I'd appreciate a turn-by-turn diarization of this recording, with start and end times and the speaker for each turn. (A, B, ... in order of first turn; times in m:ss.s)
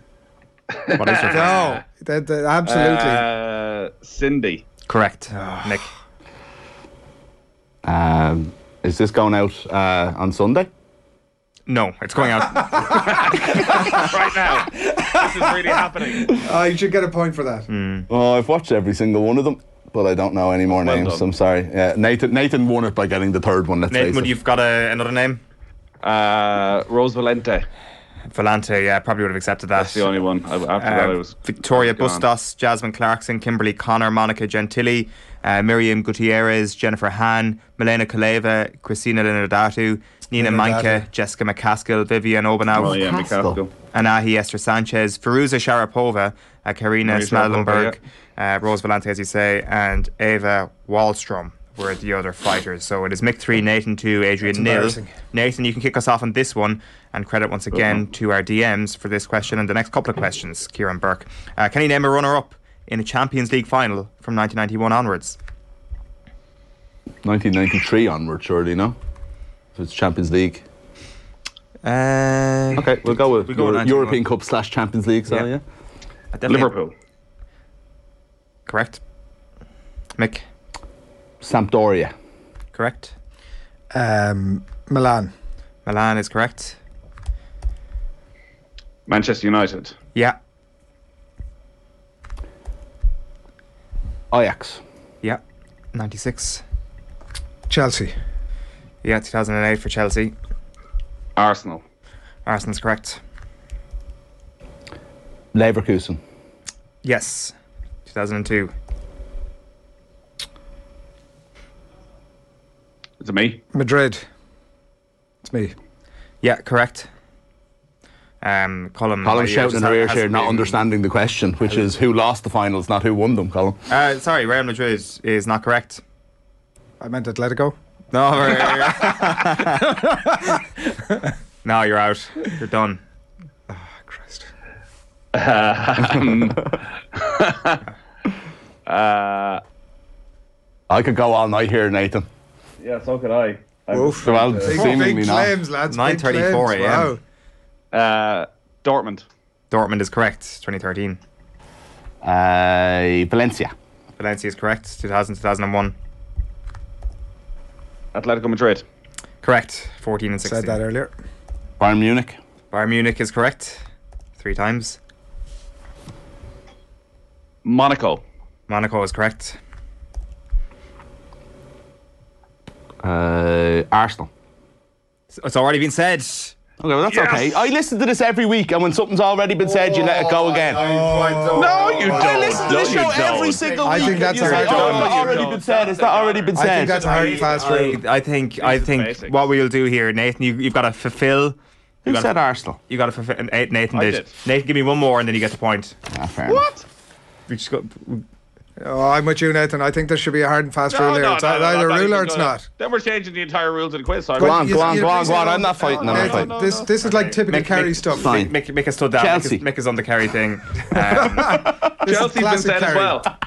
0:00.8-0:01.8 A
0:00.9-0:01.8 B
0:01.3-0:03.2 C
0:02.6-0:04.6 A
0:04.9-0:05.9 B
0:05.4-0:05.8 C
0:07.8-0:10.7 D
0:11.7-0:13.1 B
0:12.6-0:14.1 C
0:12.9-0:16.4 A
0:14.6-0:15.5 C
0:16.0-0:17.7 C
0:17.7-0:18.1 B
0:18.1-0:24.3 D
0:20.7-0:21.3 A
0:23.9-0:25.4 B
0:26.0-0:27.7 A
0:28.3-0:30.1 B
0:29.8-0:32.2 A
0:30.8-0:43.0 B
0:40.4-0:41.1 C
0:42.8-0:43.7 A
0:42.8-0:43.6 D
0:43.9-1:05.4 B
0:47.0-0:48.0 A
0:54.5-0:55.1 C
1:07.2-1:09.0 D
1:09.8-1:10.6 D
1:11.8-1:14.2 B
1:12.7-1:15.6 D
1:16.3-1:16.7 B
1:16.5-1:16.9 A
1:18.7-1:19.0 B
1:20.2-1:20.4 B
1:21.4-1:22.1 D
1:22.7-1:23.1 B
1:23.9-1:25.3 C
1:25.9-1:26.8 B
1:29.1-1:30.0 A
1:34.3-1:34.8 D
1:35.9-1:36.6 B
1:37.7-1:38.1 C
1:39.0-1:40.3 B
1:41.4-1:41.8 A
1:42.5-1:43.2 B
1:45.5-1:46.2 D
1:47.0-1:47.5 B
1:48.0-1:48.7 B
1:53.2-1:53.6 A
1:53.7-1:54.2 C
1:55.4-1:55.7 C
1:56.4-1:57.1 B
1:58.4-2:00.8 B
1:59.2-2:03.8 D
2:03.9-2:06.0 B
2:07.0-2:07.8 C
2:08.1-2:10.2 B
2:08.5-2:10.6 C
2:11.6-2:13.0 B
2:13.7-2:14.5 C
2:15.3-2:17.8 A
2:18.9-2:19.6 A
2:20.9-2:22.3 D
2:22.8-2:25.1 A
2:23.9-2:27.2 C
2:24.2-2:25.6 D
2:25.9-2:27.1 B
2:27.9-2:29.2 A
2:29.7-2:31.2 B
2:32.2-2:33.7 D
2:34.2-2:36.0 B
2:38.1-2:38.8 A
2:39.4-2:40.8 B
2:40.4-2:41.1 C
2:41.8-2:42.4 D
2:42.7-2:43.8 B
2:44.4-2:45.0 B
2:47.6-2:48.2 A
2:48.7-2:49.6 B
2:53.0-2:54.3 D
2:55.3-2:56.5 B
2:56.8-3:00.9 D
2:57.1-2:57.7 A
2:59.7-3:05.4 B
3:00.8-3:02.5 C
3:01.5-3:08.0 A
3:02.0-3:07.2 D
3:03.8-3:05.4 C
3:06.5-3:08.0 C
3:07.2-3:12.3 B
3:08.6-3:09.4 A
3:12.0-3:12.8 D
3:12.9-3:16.0 B
3:13.9-3:14.3 A
3:16.1-3:16.7 D
3:16.5-3:16.8 A
3:17.5-3:18.2 B
3:18.8-3:22.6 C
3:20.9-3:26.9 A
3:24.4-3:26.6 D
3:24.4-3:28.4 C
3:27.0-3:31.7 B
3:28.1-3:28.5 D
3:29.2-3:29.6 D
3:31.0-3:33.3 C
3:31.4-3:32.0 D
3:32.0-3:33.3 A